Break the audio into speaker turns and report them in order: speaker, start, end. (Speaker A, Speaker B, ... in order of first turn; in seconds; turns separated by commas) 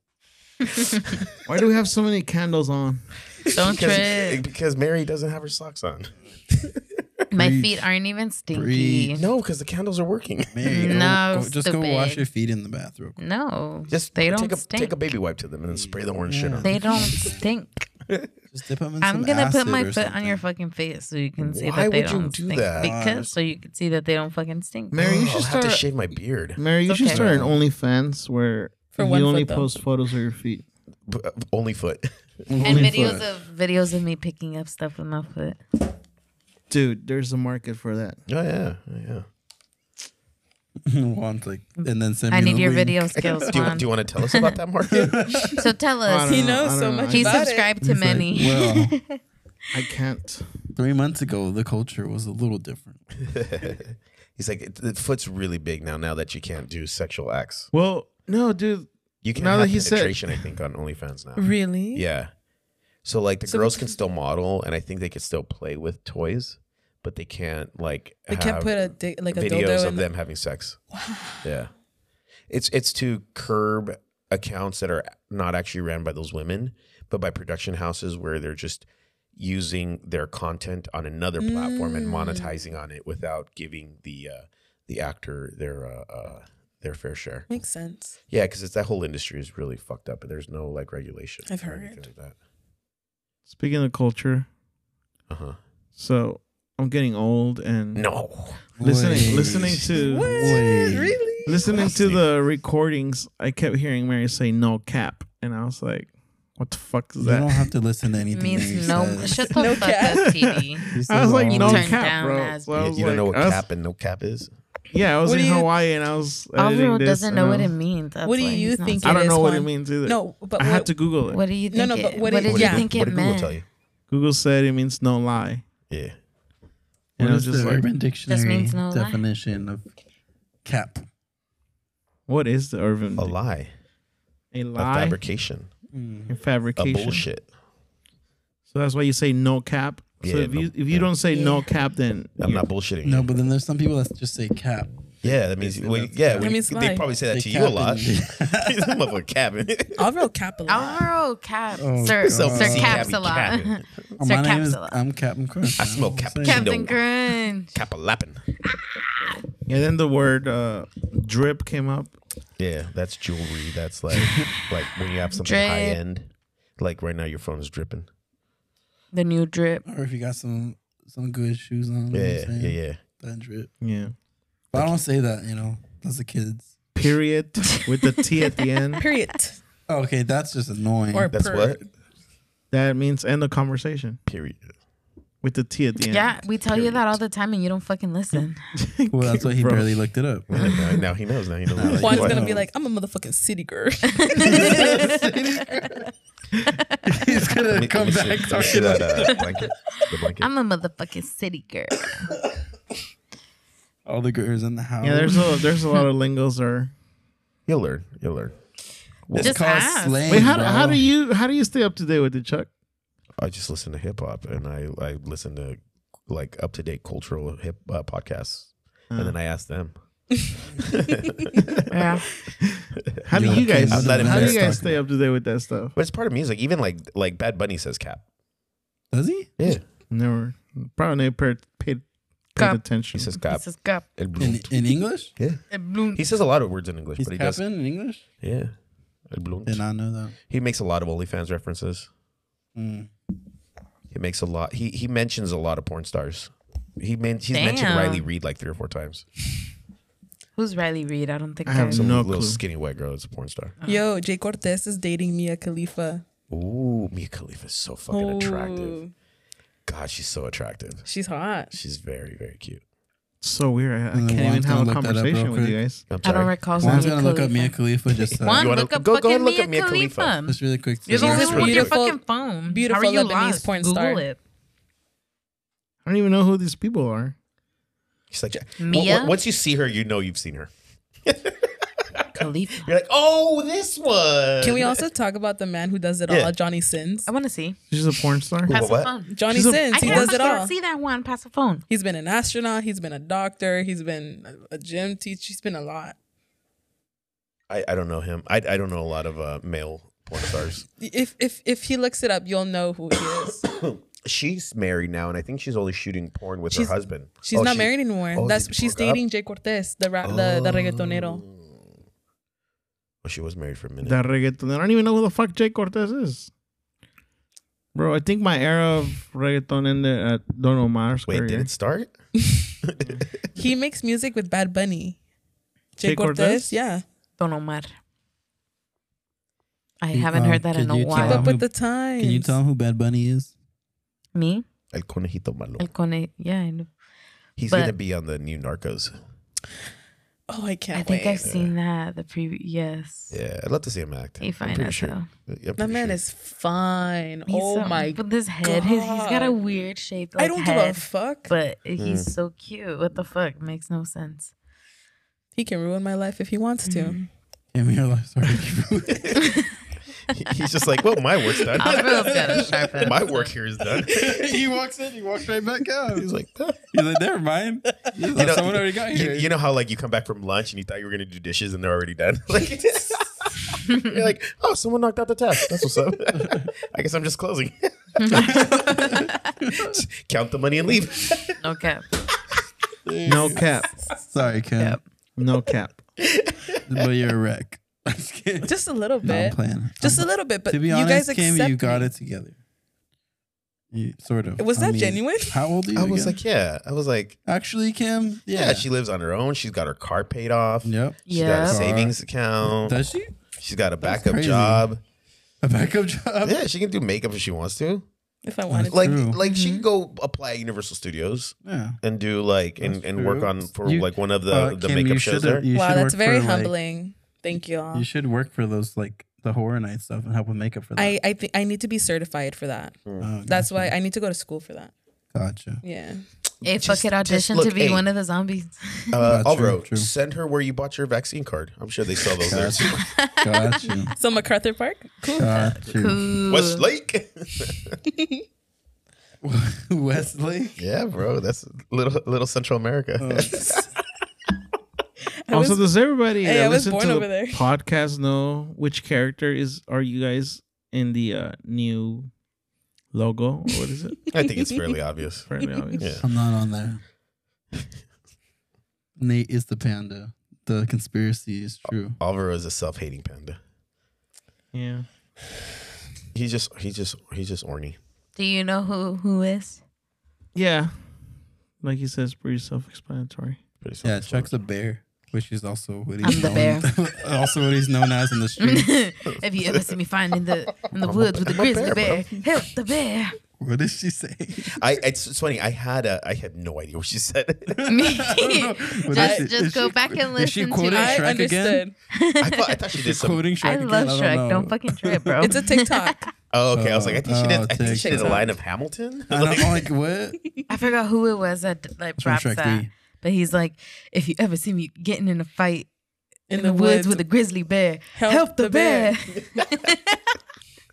Speaker A: 1.4-3.1, Speaker B: 3.5-4.4, Speaker C: 3.5-6.8, Speaker B: 7.3-9.2, Speaker D: 7.3-7.8, Speaker D: 8.5-9.2, Speaker C: 9.1-11.0, Speaker D: 10.5-13.2, Speaker B: 10.7-12.2, Speaker B: 13.2-15.0, Speaker C: 13.9-16.8, Speaker D: 15.7-17.4, Speaker B: 16.6-17.9, Speaker C: 18.1-18.3, Speaker D: 18.5-20.4, Speaker B: 19.0-25.1, Speaker C: 21.4-22.9, Speaker D: 22.8-23.3, Speaker A: 24.9-25.8, Speaker C: 25.0-26.6, Speaker A: 26.6-30.6, Speaker B: 26.9-27.2, Speaker D: 27.1-27.5, Speaker C: 27.1-27.4, Speaker E: 28.9-29.7, Speaker C: 31.1-32.1, Speaker D: 32.5-33.2, Speaker B: 32.6-35.6, Speaker A: 32.6-33.2, Speaker A: 36.7-38.2, Speaker C: 38.3-39.2, Speaker D: 40.9-43.7, Speaker B: 41.8-44.5, Speaker C: 43.5-45.3, Speaker D: 44.9-45.7, Speaker B: 45.6-49.2, Speaker A: 46.0-47.5, Speaker E: 46.3-47.7, Speaker D: 47.8-49.0, Speaker A: 49.7-50.5, Speaker D: 50.7-53.2, Speaker C: 53.2-57.7, Speaker A: 57.7-60.5, Speaker C: 59.2-62.3, Speaker E: 61.4-62.0, Speaker C: 63.0-68.7, Speaker E: 63.5-63.9, Speaker E: 68.3-70.1, Speaker C: 69.3-70.8, Speaker E: 70.9-71.5, Speaker C: 71.4-71.7, Speaker C: 72.5-78.8, Speaker C: 79.3-87.5, Speaker E: 81.4-82.5, Speaker E: 87.5-88.2, Speaker C: 88.3-92.3, Speaker E: 91.5-92.0, Speaker A: 93.5-94.5, Speaker C: 95.3-95.6, Speaker A: 96.0-98.1, Speaker C: 98.0-98.6, Speaker A: 98.8-100.7, Speaker D: 98.8-101.3, Speaker C: 99.4-99.8, Speaker E: 99.9-102.0, Speaker A: 101.5-107.7, Speaker C: 101.7-102.2, Speaker D: 107.2-109.6, Speaker B: 108.3-112.9, Speaker E: 109.5-110.5, Speaker D: 110.9-112.0, Speaker A: 110.9-113.6, Speaker C: 112.7-114.5, Speaker A: 114.9-117.7, Speaker E: 115.2-115.7, Speaker B: 116.6-119.3, Speaker E: 118.2-120.9, Speaker A: 119.0-121.4, Speaker B: 121.3-123.6, Speaker E: 121.7-122.9, Speaker C: 122.4-123.7, Speaker A: 124.1-125.6, Speaker C: 125.9-126.1, Speaker D: 127.2-129.8, Speaker A: 127.2-127.9, Speaker B: 128.3-129.2, Speaker D: 130.6-131.1, Speaker A: 132.3-133.3, Speaker C: 133.2-133.7, Speaker A: 134.5-135.2, Speaker C: 134.8-135.7, Speaker D: 135.9-136.3, Speaker A: 136.3-137.3, Speaker C: 136.8-137.5, Speaker A: 138.7-142.7, Speaker C: 140.2-141.1, Speaker E: 141.3-141.7, Speaker C: 142.4-143.3, Speaker D: 143.0-146.5, Speaker C: 145.2-150.0, Speaker E: 146.4-147.1, Speaker D: 147.3-149.0, Speaker E: 150.0-151.0, Speaker B: 150.7-155.0, Speaker D: 151.7-153.2, Speaker C: 152.2-153.9, Speaker D: 154.2-156.7, Speaker C: 155.8-157.0, Speaker B: 156.4-157.8, Speaker C: 157.7-158.4, Speaker A: 159.7-162.1, Speaker C: 162.6-168.1, Speaker D: 164.2-164.5, Speaker B: 165.3-166.0, Speaker B: 169.1-169.8, Speaker D: 169.8-173.7, Speaker C: 172.1-173.0, Speaker A: 173.8-174.1, Speaker D: 174.7-176.7, Speaker A: 176.9-179.0, Speaker E: 179.0-179.6, Speaker D: 179.9-181.3, Speaker E: 181.1-181.8, Speaker C: 181.3-181.9, Speaker A: 182.7-184.2, Speaker C: 184.3-184.7, Speaker A: 185.4-187.0, Speaker B: 186.1-188.6, Speaker A: 188.8-189.9, Speaker D: 189.1-190.7, Speaker C: 190.5-192.4, Speaker D: 191.8-192.7, Speaker E: 191.9-195.3, Speaker B: 194.2-195.2, Speaker D: 194.4-196.1, Speaker B: 196.8-197.4, Speaker D: 197.1-199.5, Speaker C: 197.7-200.5, Speaker B: 200.4-202.3, Speaker D: 204.0-205.6, Speaker A: 205.0-206.9, Speaker C: 207.7-208.5, Speaker C: 209.3-209.9, Speaker D: 209.3-211.0, Speaker B: 209.4-210.5, Speaker A: 210.3-212.7, Speaker C: 213.4-219.9, Speaker C: 220.7-221.7, Speaker B: 221.9-222.2, Speaker C: 223.2-224.9, Speaker A: 223.2-225.9, Speaker D: 223.3-225.0, Speaker C: 225.9-228.2, Speaker D: 229.1-229.5, Speaker C: 229.6-229.8, Speaker A: 230.1-233.3, Speaker B: 232.6-232.8, Speaker C: 233.1-233.6, Speaker B: 233.5-234.1, Speaker C: 234.1-235.6, Speaker D: 234.4-235.3, Speaker B: 235.7-236.2, Speaker C: 236.1-237.6, Speaker D: 237.2-238.2, Speaker C: 238.4-238.7, Speaker C: 239.3-239.8, Speaker D: 239.7-240.3, Speaker C: 240.5-242.1, Speaker D: 242.7-243.1, Speaker C: 244.1-249.2, Speaker B: 247.5-248.3, Speaker B: 250.6-252.1, Speaker A: 251.6-252.6, Speaker C: 251.9-253.7, Speaker E: 253.8-256.2, Speaker C: 256.5-259.0, Speaker E: 258.1-259.1, Speaker C: 259.9-261.1, Speaker E: 261.0-261.7, Speaker C: 261.7-262.8, Speaker A: 263.4-266.0, Speaker D: 264.1-265.8, Speaker C: 266.1-266.5, Speaker B: 266.2-267.7, Speaker D: 266.8-268.7, Speaker C: 268.1-270.3, Speaker B: 268.4-274.4, Speaker D: 270.4-271.9, Speaker C: 271.1-271.9, Speaker E: 271.2-274.2, Speaker A: 276.0-277.4, Speaker C: 278.3-280.7, Speaker B: 278.8-279.3, Speaker C: 281.2-281.6, Speaker C: 282.3-285.1, Speaker B: 282.3-282.9, Speaker E: 284.6-287.3, Speaker C: 286.3-286.5, Speaker B: 287.2-287.8, Speaker A: 287.9-288.7, Speaker C: 288.6-289.1, Speaker B: 288.7-291.8, Speaker E: 289.3-290.7, Speaker A: 289.5-290.3, Speaker E: 291.9-296.1, Speaker C: 297.7-300.9, Speaker E: 301.0-303.6, Speaker C: 303.6-309.2, Speaker E: 306.7-311.4, Speaker C: 310.2-311.7, Speaker C: 313.2-314.2, Speaker A: 314.0-316.5, Speaker A: 317.9-321.7, Speaker C: 321.3-322.1, Speaker C: 322.8-323.2, Speaker E: 323.6-325.2, Speaker A: 326.0-326.8, Speaker E: 326.0-327.0, Speaker B: 327.4-327.9, Speaker B: 330.0-331.5, Speaker D: 330.1-333.5, Speaker E: 331.2-332.6, Speaker B: 334.3-334.6, Speaker C: 334.9-335.9, Speaker B: 335.8-336.9, Speaker C: 337.6-339.1, Speaker B: 337.7-337.9, Speaker E: 340.5-341.4, Speaker B: 340.9-343.3, Speaker C: 341.4-341.7, Speaker C: 343.3-346.2, Speaker B: 344.4-345.3, Speaker E: 345.8-349.6, Speaker B: 347.5-354.5, Speaker E: 350.4-351.5, Speaker C: 352.0-352.3, Speaker E: 355.6-357.2, Speaker B: 356.9-357.2, Speaker D: 357.7-359.5, Speaker C: 359.1-359.4, Speaker C: 360.3-364.4, Speaker B: 361.8-363.5, Speaker D: 361.8-363.1, Speaker D: 364.0-366.3, Speaker C: 366.1-366.8, Speaker D: 366.9-369.5, Speaker C: 368.3-381.6, Speaker D: 376.3-376.7, Speaker B: 378.2-379.4, Speaker D: 378.3-380.0, Speaker B: 381.6-382.0, Speaker D: 383.1-385.0, Speaker A: 383.2-383.9, Speaker A: 385.4-386.0, Speaker C: 386.4-386.8, Speaker D: 386.9-392.6, Speaker E: 388.6-392.1, Speaker D: 393.9-396.4, Speaker E: 394.6-395.6, Speaker C: 395.9-397.4, Speaker D: 397.4-398.9, Speaker C: 398.5-403.0, Speaker D: 400.9-403.3, Speaker B: 401.3-401.8, Speaker C: 403.6-405.0, Speaker D: 404.0-404.9, Speaker D: 405.6-406.6, Speaker C: 406.4-408.1, Speaker E: 408.4-409.2, Speaker D: 408.7-409.4, Speaker C: 408.9-415.7, Speaker B: 409.4-409.8, Speaker D: 411.6-412.0, Speaker D: 412.8-416.7, Speaker E: 415.7-418.1, Speaker D: 417.9-421.2, Speaker E: 420.9-424.9, Speaker C: 423.1-423.3, Speaker D: 423.2-423.9, Speaker D: 425.3-425.8, Speaker E: 425.8-426.2, Speaker C: 426.6-428.0, Speaker B: 426.6-429.2, Speaker C: 429.1-433.1, Speaker D: 429.2-430.1, Speaker D: 432.4-434.1, Speaker B: 433.0-433.9, Speaker E: 434.1-435.6, Speaker D: 435.4-436.3, Speaker B: 435.4-436.8, Speaker C: 436.5-438.0, Speaker D: 439.4-440.8, Speaker C: 440.8-443.8, Speaker D: 443.2-443.9, Speaker E: 445.5-445.9, Speaker A: 445.5-452.3, Speaker E: 446.4-447.6, Speaker A: 453.1-454.2, Speaker C: 454.3-456.3, Speaker A: 455.5-456.0, Speaker E: 455.6-456.0, Speaker D: 456.2-457.0, Speaker D: 459.2-462.2, Speaker C: 461.9-463.6, Speaker A: 464.7-465.1, Speaker C: 466.3-468.0, Speaker B: 468.4-469.8, Speaker A: 470.5-470.9, Speaker A: 471.8-473.6, Speaker C: 473.8-474.6, Speaker D: 474.0-478.9, Speaker B: 476.2-476.9, Speaker B: 478.6-483.4, Speaker C: 481.0-482.3, Speaker D: 483.6-484.8, Speaker C: 484.8-487.9, Speaker D: 487.7-491.9, Speaker B: 487.9-491.3, Speaker E: 489.1-489.5, Speaker E: 490.9-491.9, Speaker B: 492.1-492.8, Speaker C: 492.4-493.5, Speaker D: 492.9-495.4, Speaker B: 493.6-496.3, Speaker E: 495.4-496.3, Speaker C: 496.5-499.9, Speaker D: 496.7-498.5, Speaker E: 497.9-498.5, Speaker D: 499.3-500.4, Speaker B: 500.7-505.9, Speaker D: 502.2-502.9, Speaker E: 506.5-507.2, Speaker B: 506.5-510.2, Speaker E: 508.1-509.1